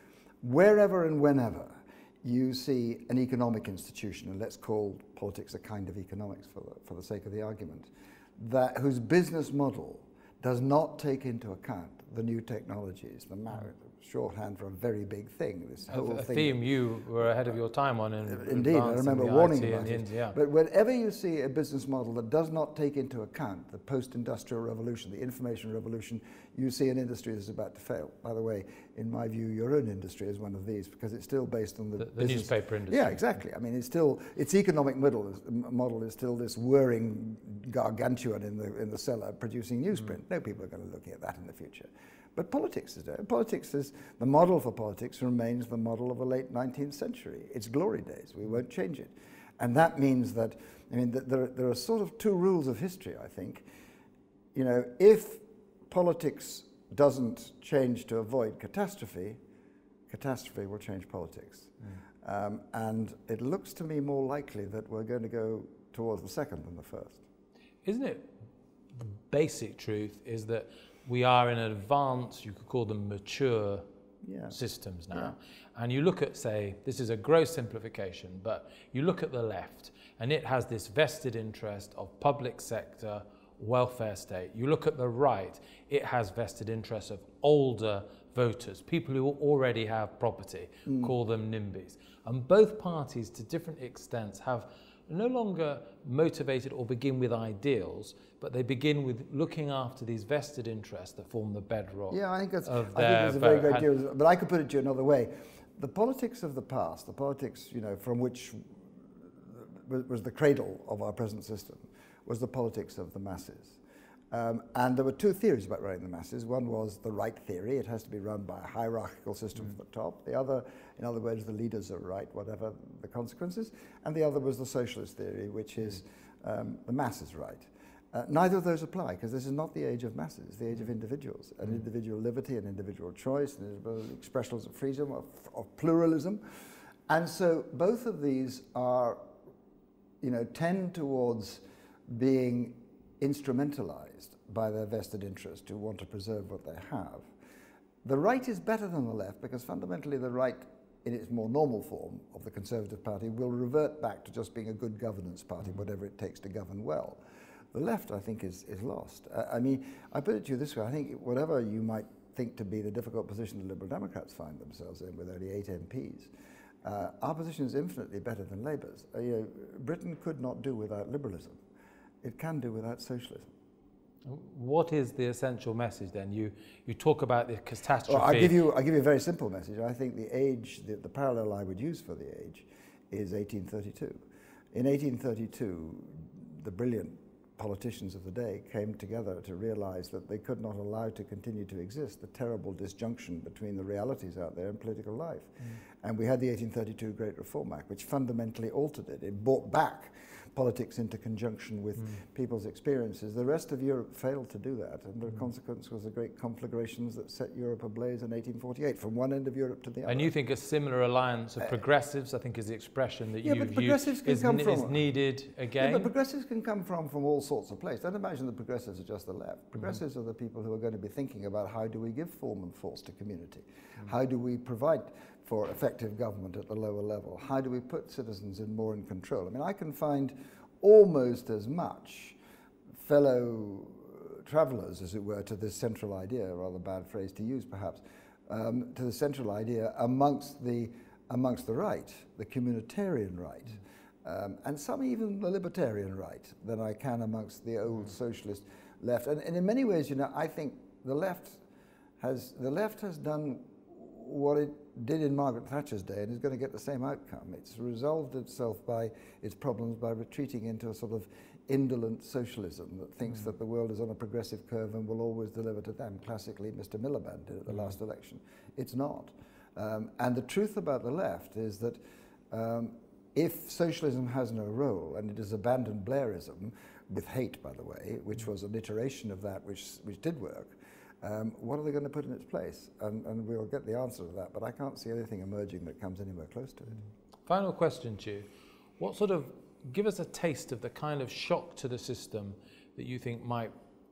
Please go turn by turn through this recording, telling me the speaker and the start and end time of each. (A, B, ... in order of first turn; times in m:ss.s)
0:00.4-0:16.6 A
0:15.9-0:20.3 B
0:18.2-0:53.6 A
0:32.0-0:33.2 B
0:54.5-0:59.4 A
1:00.1-1:07.2 A
1:07.8-1:08.3 B
1:09.0-1:13.8 B
1:14.2-1:14.6 A
1:14.5-1:43.8 B
1:30.8-1:31.1 A
1:42.1-1:53.8 A
1:54.3-2:16.4 A
2:17.1-2:19.2 A
2:20.2-2:27.3 A
2:28.0-2:37.2 A
2:37.7-2:46.3 A
2:46.8-2:51.6 A
2:52.2-2:53.5 A
2:54.2-2:58.6 B
2:58.1-3:04.2 A
3:04.7-3:30.3 A
3:30.0-3:36.1 B
3:33.4-3:35.0 A
3:35.8-3:52.4 A
3:53.0-4:11.6 A
4:12.2-4:32.0 A
4:32.5-4:47.0 A
4:47.4-4:48.5 B
4:49.0-4:53.7 B